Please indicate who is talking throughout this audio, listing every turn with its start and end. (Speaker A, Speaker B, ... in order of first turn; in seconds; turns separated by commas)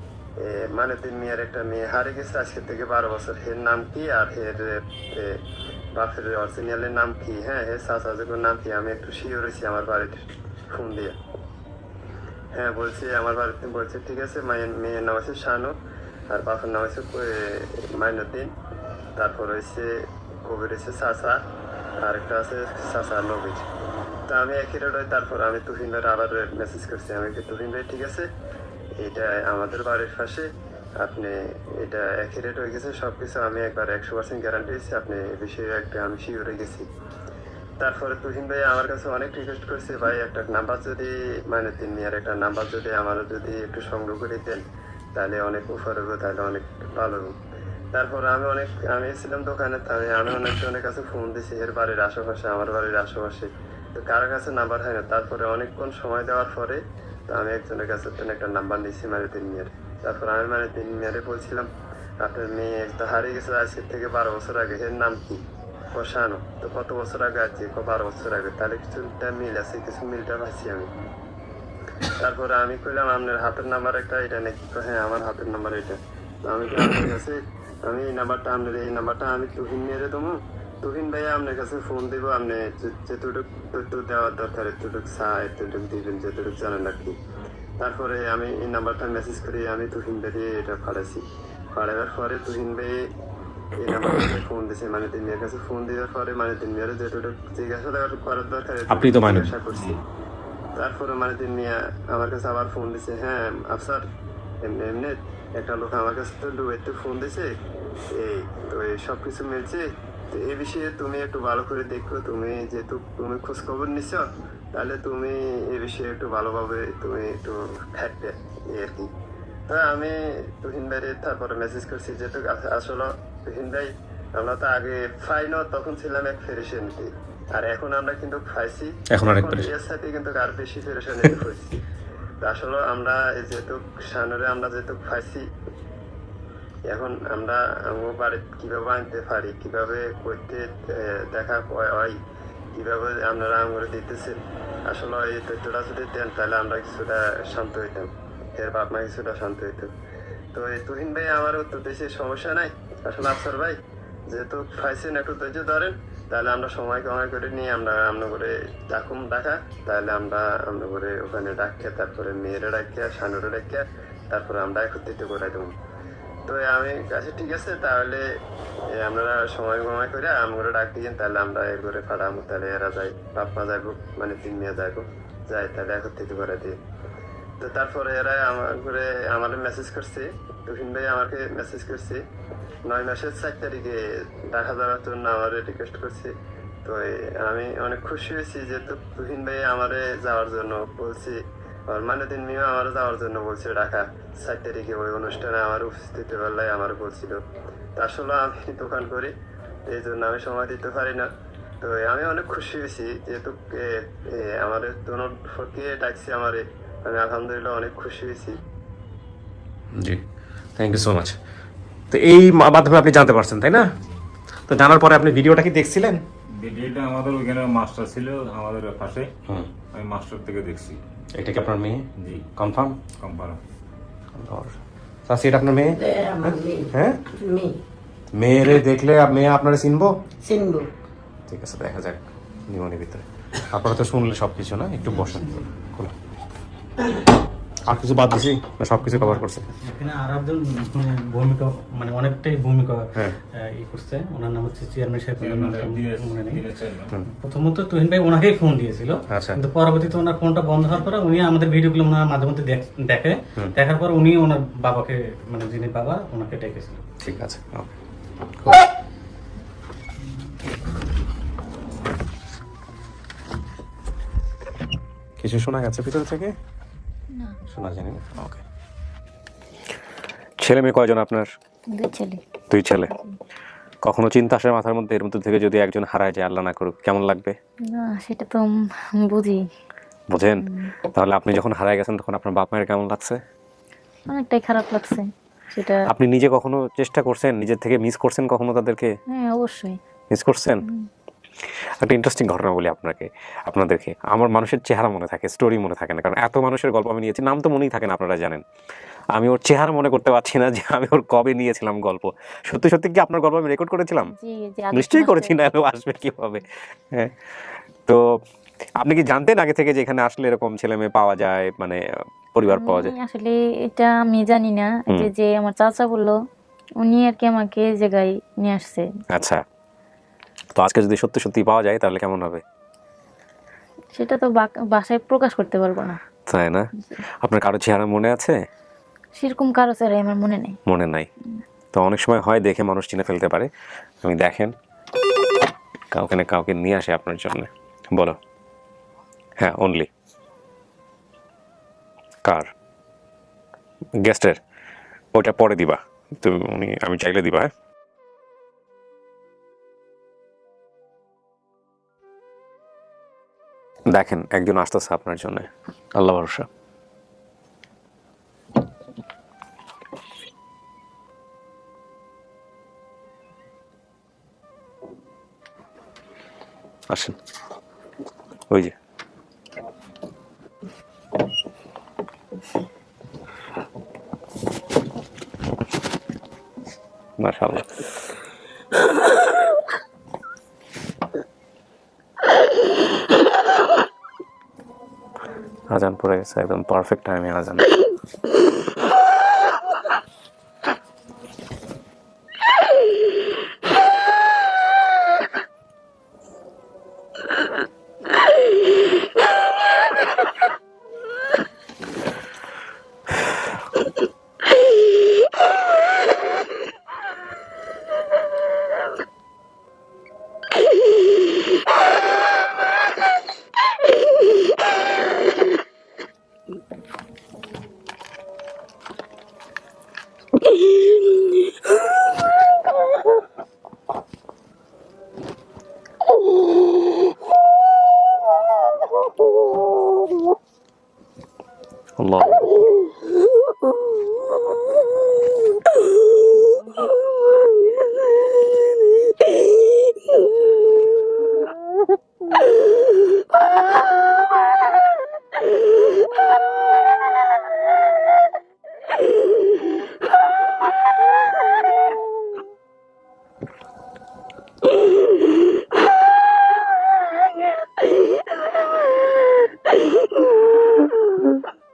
Speaker A: 0.4-5.4, Speaker A: 6.0-11.2, Speaker A: 12.5-15.7, Speaker A: 16.3-18.5, Speaker A: 19.2-21.4, Speaker A: 22.0-23.6, Speaker A: 24.3-28.3, Speaker A: 29.0-36.9, Speaker A: 37.8-44.6, Speaker A: 45.1-47.3, Speaker A: 47.9-61.7, Speaker A: 62.2-65.4, Speaker A: 65.9-70.9, Speaker A: 72.1-87.1, Speaker A: 87.8-93.0, Speaker A: 93.8-100.0, Speaker B: 98.9-99.5, Speaker A: 100.8-104.0, Speaker A: 104.6-107.5, Speaker A: 108.1-119.1, Speaker A: 119.7-131.8, Speaker B: 129.1-129.7, Speaker A: 132.4-135.5, Speaker A: 136.9-142.2, Speaker A: 142.7-149.9, Speaker A: 150.5-153.8, Speaker A: 154.3-165.7, Speaker A: 166.5-168.3, Speaker A: 168.9-176.8, Speaker A: 177.6-182.2, Speaker A: 182.9-186.3, Speaker A: 186.8-197.4, Speaker A: 198.0-199.3, Speaker A: 199.9-201.3, Speaker A: 201.8-208.6, Speaker B: 209.9-210.2, Speaker B: 210.8-211.4, Speaker B: 212.1-213.9, Speaker B: 214.7-216.2, Speaker C: 216.6-219.3, Speaker C: 219.9-221.0, Speaker B: 221.3-222.0, Speaker C: 222.2-222.5, Speaker B: 222.6-223.0, Speaker C: 223.2-223.6, Speaker B: 224.3-224.8, Speaker B: 225.3-227.2, Speaker D: 225.9-227.8, Speaker B: 228.3-230.1, Speaker D: 230.4-230.9, Speaker B: 231.5-236.1, Speaker B: 237.8-239.6, Speaker E: 239.0-246.6, Speaker C: 245.4-247.2, Speaker E: 247.4-257.0, Speaker B: 249.3-249.6, Speaker B: 257.2-257.9, Speaker B: 258.6-258.8, Speaker B: 265.4-266.5, Speaker B: 267.7-268.6, Speaker B: 270.6-271.5, Speaker F: 271.9-272.4, Speaker B: 272.7-273.1, Speaker B: 274.0-277.6, Speaker F: 277.8-279.6, Speaker B: 280.3-283.4, Speaker F: 280.6-280.9, Speaker F: 284.3-286.1, Speaker B: 286.1-289.1, Speaker F: 289.3-290.0, Speaker B: 290.3-290.8, Speaker F: 290.8-291.1, Speaker B: 291.6-298.6, Speaker B: 299.3-304.3, Speaker F: 304.3-305.5, Speaker B: 304.9-308.2, Speaker B: 309.0-312.0, Speaker B: 312.5-313.1, Speaker F: 312.7-316.4, Speaker F: 317.0-319.1, Speaker B: 319.3-319.6, Speaker B: 320.7-322.6, Speaker F: 324.1-326.2, Speaker B: 326.5-326.9, Speaker B: 327.4-328.6, Speaker F: 329.4-330.8, Speaker B: 330.9-331.3, Speaker B: 331.9-333.7, Speaker B: 334.2-334.7, Speaker B: 336.1-338.4, Speaker B: 339.6-340.1, Speaker B: 342.4-342.7, Speaker B: 344.2-344.6, Speaker B: 345.3-347.7, Speaker B: 354.1-356.7, Speaker B: 367.1-367.4, Speaker B: 377.4-378.0, Speaker B: 385.9-387.9, Speaker D: 420.7-421.6, Speaker D: 429.5-429.9, Speaker B: 432.2-432.7, Speaker D: 433.4-435.1, Speaker D: 435.7-441.3, Speaker D: 443.1-444.9, Speaker D: 457.8-460.2